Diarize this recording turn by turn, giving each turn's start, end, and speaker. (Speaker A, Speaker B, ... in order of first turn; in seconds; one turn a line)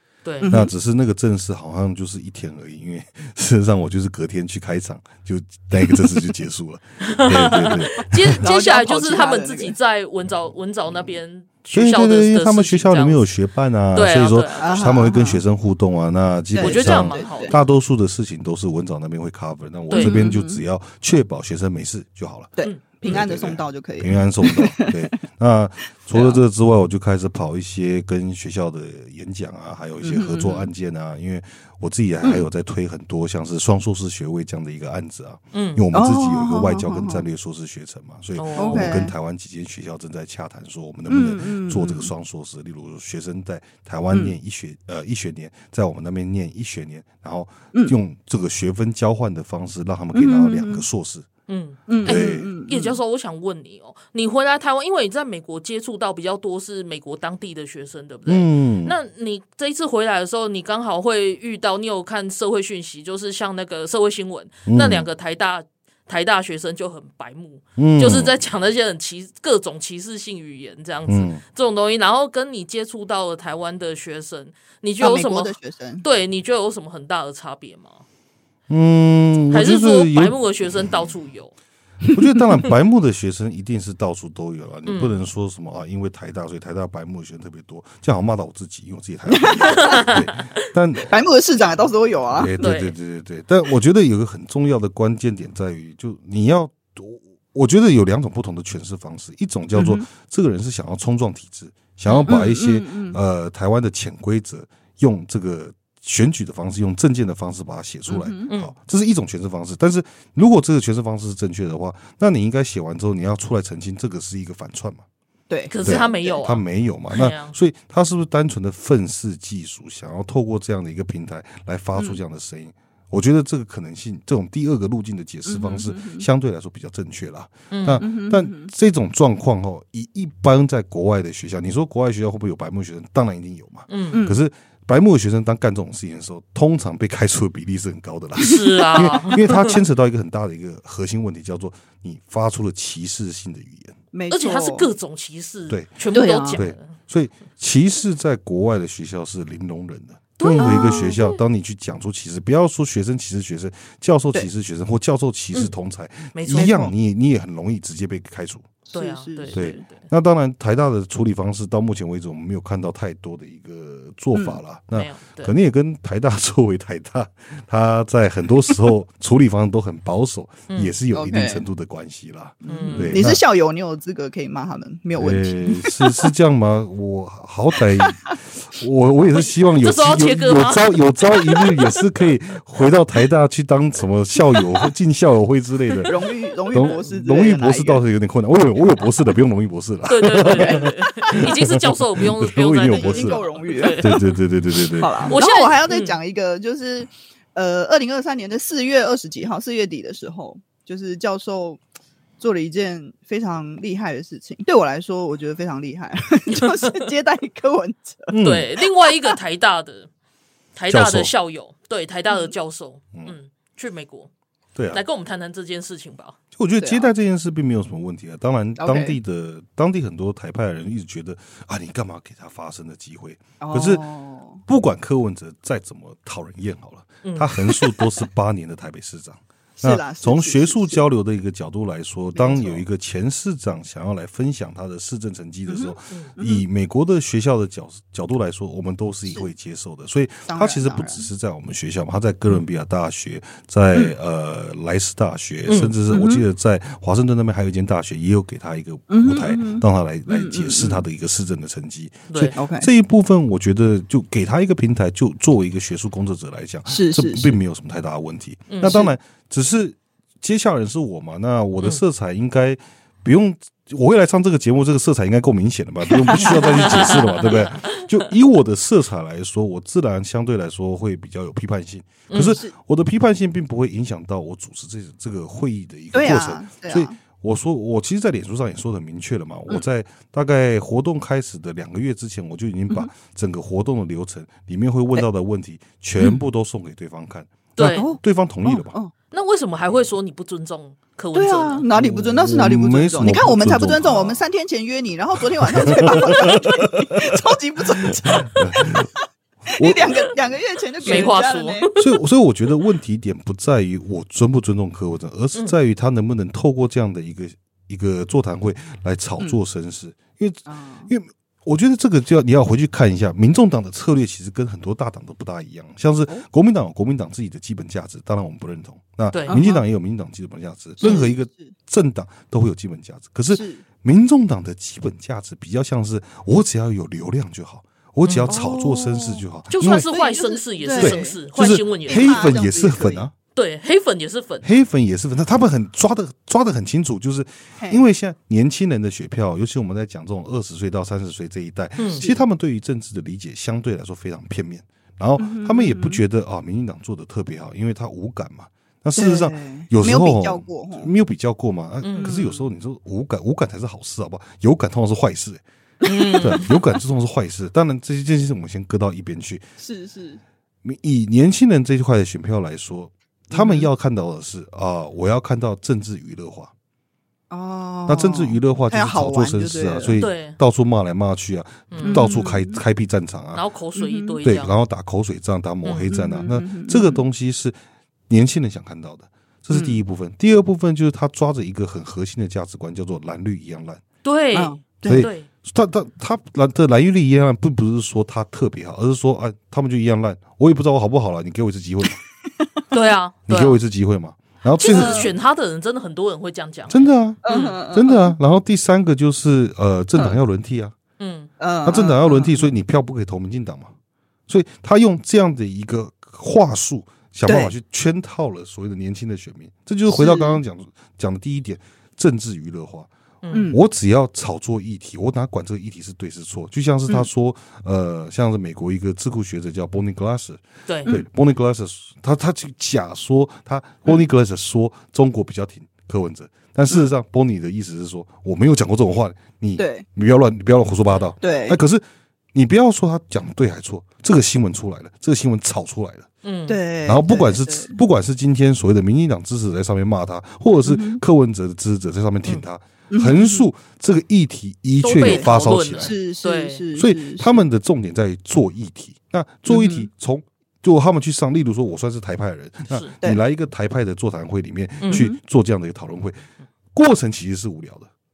Speaker A: 0.2-0.5
Speaker B: 0.4-0.7
Speaker C: 0.5-8.4
Speaker A: 7.1-13.2
Speaker B: 8.4-9.8
Speaker C: 11.7-22.5
Speaker A: 13.9-14.8
Speaker B: 14.6-15.4
Speaker B: 16.5-17.6
Speaker A: 16.6-17.6
Speaker A: 19.9-20.2
Speaker B: 19.9-20.6
Speaker B: 22.6-25.2
Speaker A: 22.6-23.1
Speaker C: 23.1-51.3
Speaker B: 26.1-26.4
Speaker B: 30.0-30.7
Speaker A: 35.5-35.8
Speaker B: 35.9-37.2
Speaker A: 38.4-38.9
Speaker B: 38.6-39.1
Speaker B: 41.1-42.1
Speaker B: 50.1-50.9
Speaker A: 51.5-78.0
Speaker B: 51.9-53.0
Speaker C: 52.0-52.5
Speaker C: 58.3-59.0
Speaker C: 64.7-65.1
Speaker C: 67.8-68.3
Speaker C: 71.1-71.4
Speaker B: 75.0-76.0
Speaker C: 78.7-80.9
Speaker A: 79.5-81.5
Speaker C: 82.1-91.1
Speaker A: 84.9-85.2
Speaker B: 89.3-90.1
Speaker A: 89.7-90.2
Speaker B: 91.1-92.5
Speaker C: 92.3-115.0
Speaker A: 92.6-93.0
Speaker B: 99.7-100.0
Speaker A: 102.1-102.4
Speaker B: 102.3-103.2
Speaker B: 108.1-108.5
Speaker A: 108.5-108.7
Speaker B: 115.5-116.4
Speaker A: 115.7-117.5
Speaker C: 115.8-144.0
Speaker B: 125.5-126.3
Speaker A: 127.7-128.0
Speaker B: 128.0-128.7
Speaker A: 133.9-134.2
Speaker B: 134.1-134.4
Speaker A: 138.4-139.7
Speaker B: 144.1-144.9
Speaker A: 144.3-146.9
Speaker B: 146.1-146.6
Speaker C: 146.5-158.8
Speaker A: 150.4-151.4
Speaker B: 150.6-151.2
Speaker A: 156.3-156.7
Speaker B: 156.5-156.9
Speaker B: 158.9-159.8
Speaker A: 158.9-160.0
Speaker C: 159.5-173.4
Speaker A: 164.9-165.5
Speaker A: 170.7-171.0
Speaker B: 171.1-171.6
Speaker B: 172.6-176.3
Speaker A: 172.7-173.2
Speaker C: 175.2-186.1
Speaker B: 178.0-178.3
Speaker A: 179.8-180.8
Speaker B: 186.1-188.0
Speaker C: 186.7-193.4
Speaker A: 190.1-194.2
Speaker B: 190.5-191.5
Speaker B: 192.9-194.2
Speaker C: 193.9-195.4
Speaker B: 195.0-201.8
Speaker A: 195.3-196.2
Speaker B: 202.4-208.3
Speaker C: 208.3-208.7
Speaker A: 208.4-210.1
Speaker B: 209.0-209.3
Speaker A: 210.8-214.3
Speaker C: 210.9-211.3
Speaker C: 214.8-215.0
Speaker A: 214.9-216.4
Speaker C: 216.6-224.0
Speaker B: 216.8-217.1
Speaker B: 218.8-219.2
Speaker B: 223.6-224.6
Speaker C: 224.7-288.9
Speaker A: 227.2-227.5
Speaker B: 229.8-231.1
Speaker B: 232.3-232.8
Speaker B: 235.7-236.7
Speaker B: 240.5-241.3
Speaker A: 245.7-245.9
Speaker B: 246.1-246.4
Speaker B: 249.1-251.0
Speaker A: 252.3-252.6
Speaker B: 252.6-252.9
Speaker B: 256.9-257.6
Speaker A: 258.7-259.0
Speaker B: 258.8-259.1
Speaker B: 266.1-267.6
Speaker A: 266.4-268.3
Speaker A: 272.3-272.6
Speaker B: 272.4-272.7
Speaker B: 276.1-277.2
Speaker A: 287.8-288.1
Speaker B: 287.9-289.1
Speaker A: 289.3-291.9
Speaker B: 291.3-299.1
Speaker C: 291.9-294.4
Speaker C: 295.6-297.4
Speaker C: 298.0-299.1
Speaker B: 299.7-301.9
Speaker C: 299.8-300.3
Speaker C: 301.1-301.3
Speaker A: 301.1-302.0
Speaker C: 302.0-330.1
Speaker B: 310.7-311.1
Speaker A: 319.3-319.6
Speaker B: 319.5-319.8
Speaker B: 321.0-321.8
Speaker B: 323.5-323.8
Speaker A: 328.2-328.5
Speaker B: 328.5-331.4
Speaker A: 329.7-332.5
Speaker C: 331.0-333.3
Speaker B: 332.0-333.2
Speaker A: 333.6-334.7
Speaker C: 334.6-355.6
Speaker A: 342.0-342.2
Speaker B: 342.2-342.4
Speaker B: 345.4-346.2
Speaker B: 349.1-351.1
Speaker A: 352.0-352.3
Speaker B: 352.2-352.7
Speaker A: 356.0-356.7
Speaker C: 356.4-359.6
Speaker B: 359.8-360.4
Speaker C: 360.8-366.7
Speaker B: 363.5-363.9
Speaker B: 367.5-370.2
Speaker C: 368.1-373.6
Speaker A: 370.2-370.6
Speaker A: 371.9-372.2
Speaker B: 372.0-372.8
Speaker A: 373.5-374.7
Speaker B: 373.9-374.4
Speaker C: 374.4-377.8
Speaker B: 376.1-377.2
Speaker C: 378.3-384.0
Speaker B: 379.7-380.0
Speaker A: 384.2-385.5
Speaker B: 384.5-385.3
Speaker C: 385.1-392.2
Speaker A: 392.9-393.8
Speaker C: 393.5-395.3
Speaker A: 394.8-397.8
Speaker B: 394.9-395.3
Speaker C: 396.9-400.9
Speaker B: 397.4-398.4
Speaker A: 401.2-401.5
Speaker B: 401.6-402.7
Speaker C: 401.9-403.9
Speaker C: 404.5-413.1
Speaker B: 407.4-407.7
Speaker B: 410.1-410.6
Speaker A: 413.4-413.7
Speaker B: 413.5-413.8
Speaker C: 413.7-436.3
Speaker A: 420.9-421.1
Speaker B: 429.8-430.1
Speaker B: 431.4-431.8
Speaker A: 436.4-436.8
Speaker B: 436.7-438.0
Speaker C: 437.1-446.1
Speaker B: 440.8-441.2
Speaker B: 443.1-443.7
Speaker A: 445.0-446.8
Speaker B: 445.2-447.6
Speaker C: 447.0-456.4
Speaker B: 449.7-450.1
Speaker A: 455.0-455.3
Speaker B: 455.1-455.4
Speaker C: 456.9-458.1